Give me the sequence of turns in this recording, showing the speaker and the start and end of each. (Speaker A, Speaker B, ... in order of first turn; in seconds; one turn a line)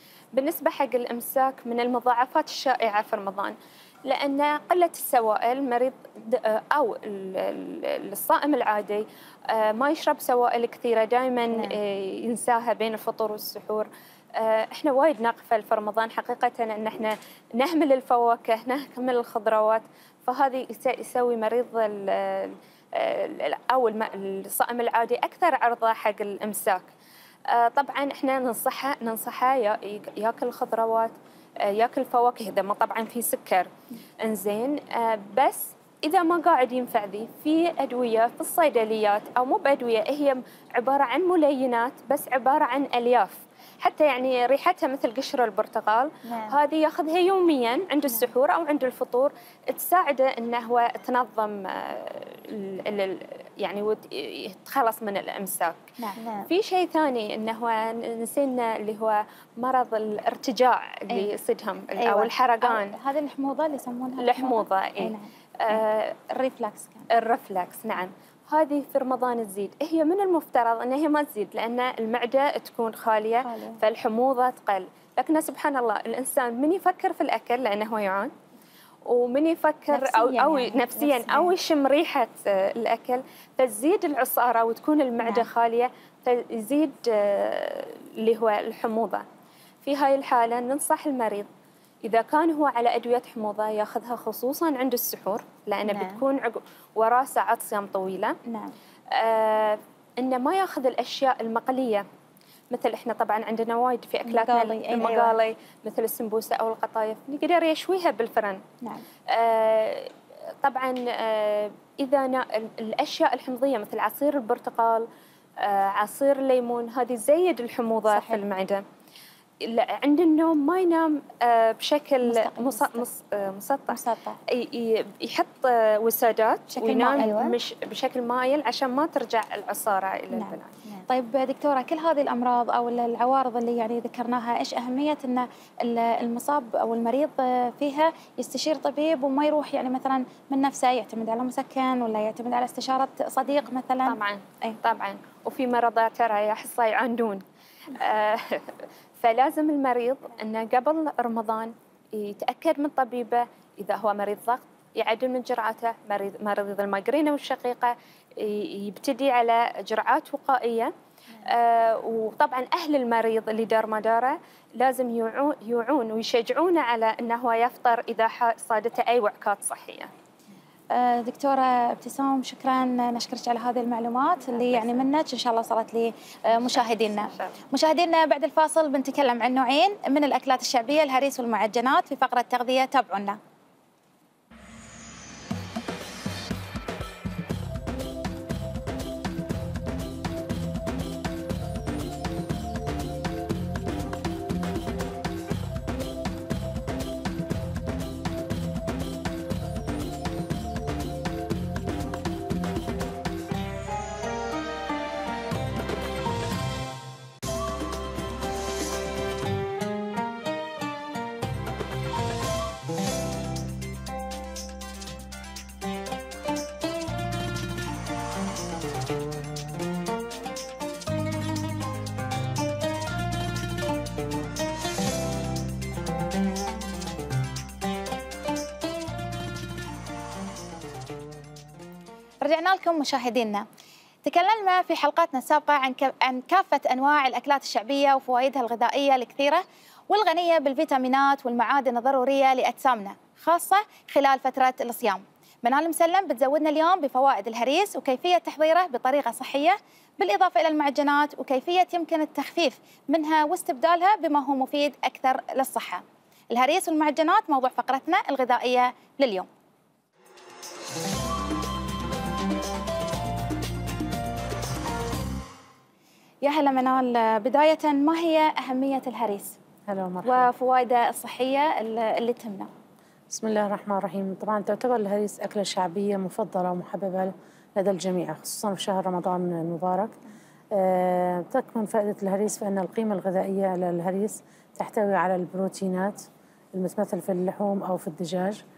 Speaker A: 0.3-26.9
Speaker B: 11.5-11.8
Speaker A: 27.5-55.8
Speaker B: 46.3-46.6
Speaker B: 56.2-56.5
Speaker A: 56.5-63.0
Speaker B: 62.0-62.3
Speaker C: 62.6-67.1
Speaker A: 64.2-66.2
Speaker A: 67.1-78.3
Speaker C: 73.4-73.8
Speaker A: 79.1-89.2
Speaker C: 79.9-81.5
Speaker A: 89.8-91.5
Speaker A: 92.0-98.4
Speaker B: 95.8-96.2
Speaker C: 98.5-98.7
Speaker A: 99.1-102.0
Speaker A: 102.7-108.6
Speaker C: 104.3-105.3
Speaker A: 109.3-110.1
Speaker A: 110.6-115.1
Speaker A: 115.6-118.8
Speaker C: 118.1-118.4
Speaker A: 119.6-130.7
Speaker C: 122.2-123.1
Speaker C: 123.9-124.4
Speaker C: 126.7-127.3
Speaker B: 127.2-127.5
Speaker C: 130.3-144.8
Speaker A: 144.1-160.9
Speaker A: 161.4-170.1
Speaker C: 170.9-183.4
Speaker A: 174.7-175.0
Speaker A: 176.7-177.5
Speaker C: 232.4-233.7
Speaker C: 234.2-259.5
Speaker C: 266.4-269.6
Speaker D: 269.9-270.5
Speaker C: 270.2-272.7
Speaker D: 273.3-280.1
Speaker D: 280.7-288.6